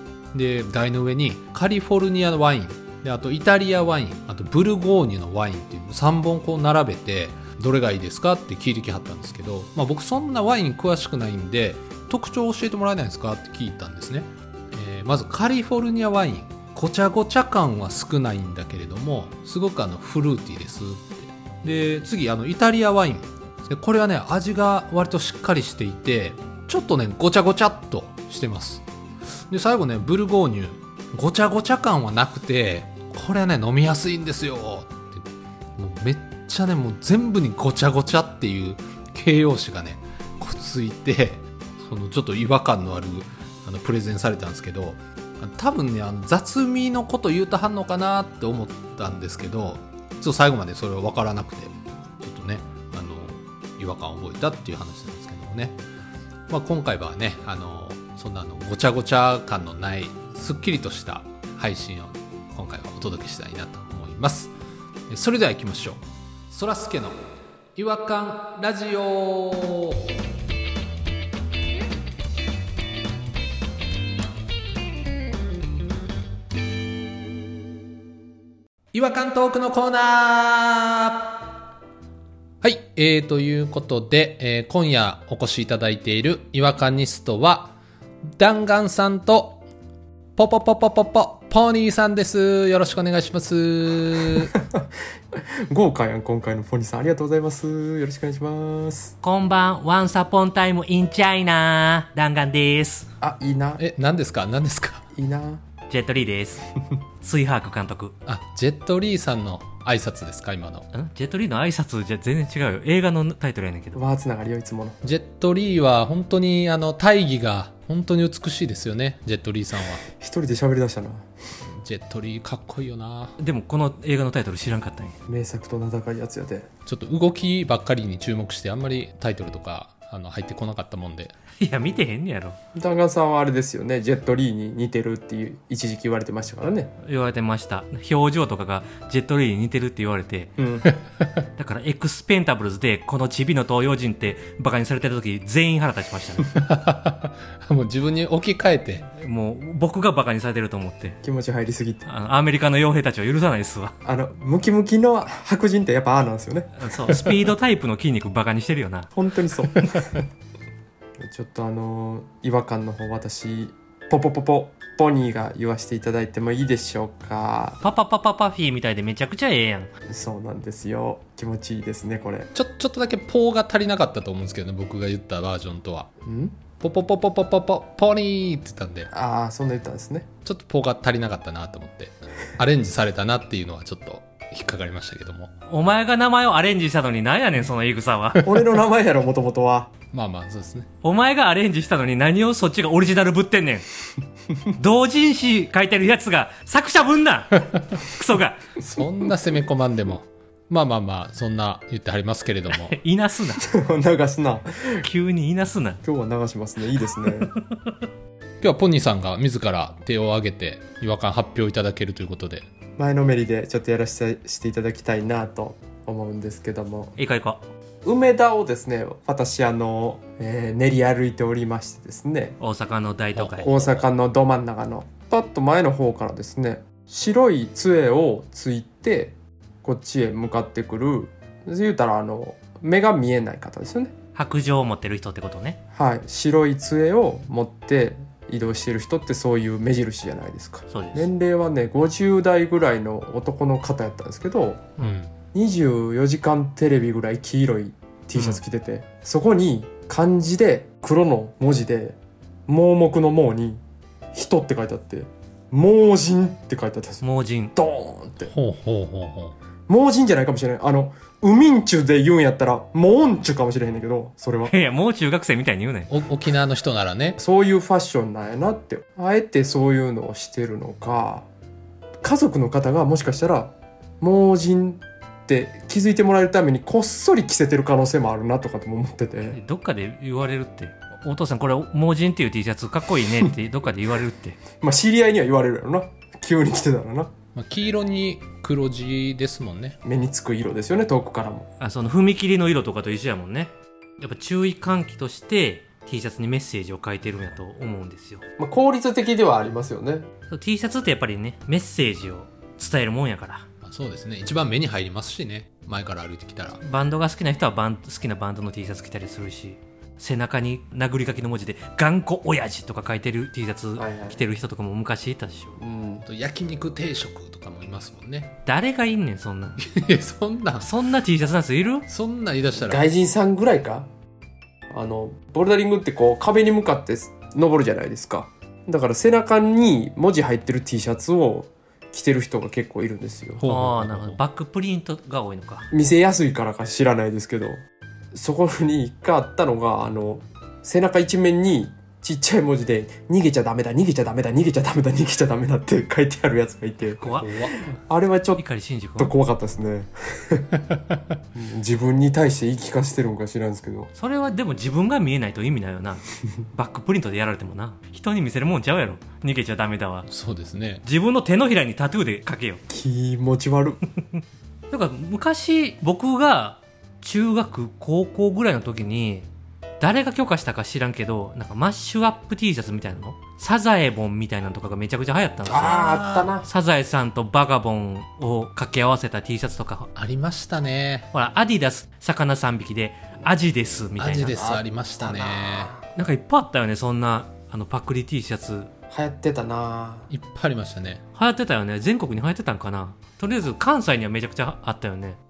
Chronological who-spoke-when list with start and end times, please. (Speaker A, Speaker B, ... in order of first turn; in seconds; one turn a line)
Speaker A: 0.3-35.2
Speaker A: 35.8-55.8
Speaker A: 56.5-64.5
Speaker A: 65.1-67.2
Speaker A: 67.8-70.2
Speaker A: 78.9-81.5
Speaker A: 82.6-87.8
Speaker A: 88.3-89.6
Speaker A: 90.4-94.5
Speaker B: 95.7-99.1
Speaker C: 99.2-103.1
Speaker B: 103.2-103.8
Speaker A: 103.8-105.0
Speaker B: 105.2-105.6
Speaker C: 105.9-106.6
Speaker C: 107.2-108.1
Speaker A: 108.2-110.9
Speaker C: 110.9-114.0
Speaker B: 114.0-115.0
Speaker A: 115.0-120.0
Speaker B: 120.2-121.2
Speaker A: 121.8-123.3
Speaker C: 123.4-125.2
Speaker B: 125.3-126.7
Speaker A: 126.8-131.3
Speaker C: 131.6-132.6
Speaker B: 132.8-136.9
Speaker C: 137.0-140.5
Speaker B: 140.6-140.9
Speaker C: 141.6-146.5
Speaker A: 146.5-149.1
Speaker C: 149.1-151.2
Speaker B: 151.2-152.0
Speaker C: 152.1-153.9
Speaker B: 154.0-156.7
Speaker C: 156.8-159.1
Speaker B: 159.1-159.9
Speaker B: 161.2-167.8
Speaker C: 167.8-169.9
Speaker B: 170.1-172.5
Speaker A: 172.5-176.1
Speaker B: 176.2-176.6
Speaker A: 176.8-179.1
Speaker B: 179.1-180.3
Speaker A: 180.4-185.5
Speaker C: 185.7-188.5
Speaker B: 188.5-189.9
Speaker A: 190.1-190.9
Speaker C: 191.0-193.8
Speaker C: 194.8-198.7
Speaker A: 198.8-203.0
Speaker C: 202.7-203.7
Speaker B: 203.6-205.0
Speaker C: 205.0-206.0
Speaker B: 206.0-207.5
Speaker C: 207.4-207.9
Speaker A: 208.6-212.6
Speaker B: 213.0-217.1
Speaker C: 217.2-217.6
Speaker B: 218.0-222.5
Speaker C: 222.6-223.6
Speaker A: 223.3-224.1
Speaker B: 223.6-234.1
Speaker C: 234.3-235.8
Speaker B: 235.9-244.8
Speaker C: 240.9-241.3
Speaker A: 245.0-245.3
Speaker B: 245.5-253.8
Speaker B: 254.3-257.2
Speaker C: 257.2-257.7
Speaker B: 257.8-258.4
Speaker A: 258.4-259.5
Speaker B: 259.9-264.7
Speaker C: 264.6-266.1
Speaker A: 266.1-267.4
Speaker B: 267.4-271.4
Speaker B: 272.2-279.6
Speaker C: 279.5-284.6
Speaker B: 284.8-287.3
Speaker A: 287.5-290.0
Speaker B: 290.0-291.7
Speaker C: 291.8-298.4
Speaker B: 298.6-300.2
Speaker C: 300.5-303.6
Speaker A: 303.8-306.8
Speaker C: 306.8-315.8
Speaker B: 314.0-314.4
Speaker B: 315.8-316.2
Speaker A: 316.2-318.6
Speaker C: 318.6-319.9
Speaker A: 319.8-320.9
Speaker C: 320.8-322.1
Speaker A: 322.1-323.1
Speaker B: 322.9-324.1
Speaker B: 324.9-333.6
Speaker A: 333.6-334.4
Speaker C: 333.6-335.9
Speaker B: 335.9-337.8
Speaker B: 338.3-347.2
Speaker C: 347.2-347.6
Speaker A: 347.2-347.7
Speaker B: 347.9-348.6
Speaker C: 348.6-349.3
Speaker B: 349.2-350.6
Speaker B: 351.5-354.1
Speaker C: 354.1-360.3
Speaker A: 360.3-361.0
Speaker C: 361.0-362.8
Speaker B: 362.9-364.0
Speaker C: 364.9-369.5
Speaker C: 370.0-380.1
Speaker B: 375.7-376.6
Speaker A: 375.7-376.6
Speaker A: 380.1-381.3
Speaker C: 381.3-384.6
Speaker A: 384.2-385.9
Speaker B: 384.6-386.0
Speaker C: 386.1-388.9
Speaker B: 389.1-390.3
Speaker A: 390.3-391.2
Speaker C: 391.3-395.4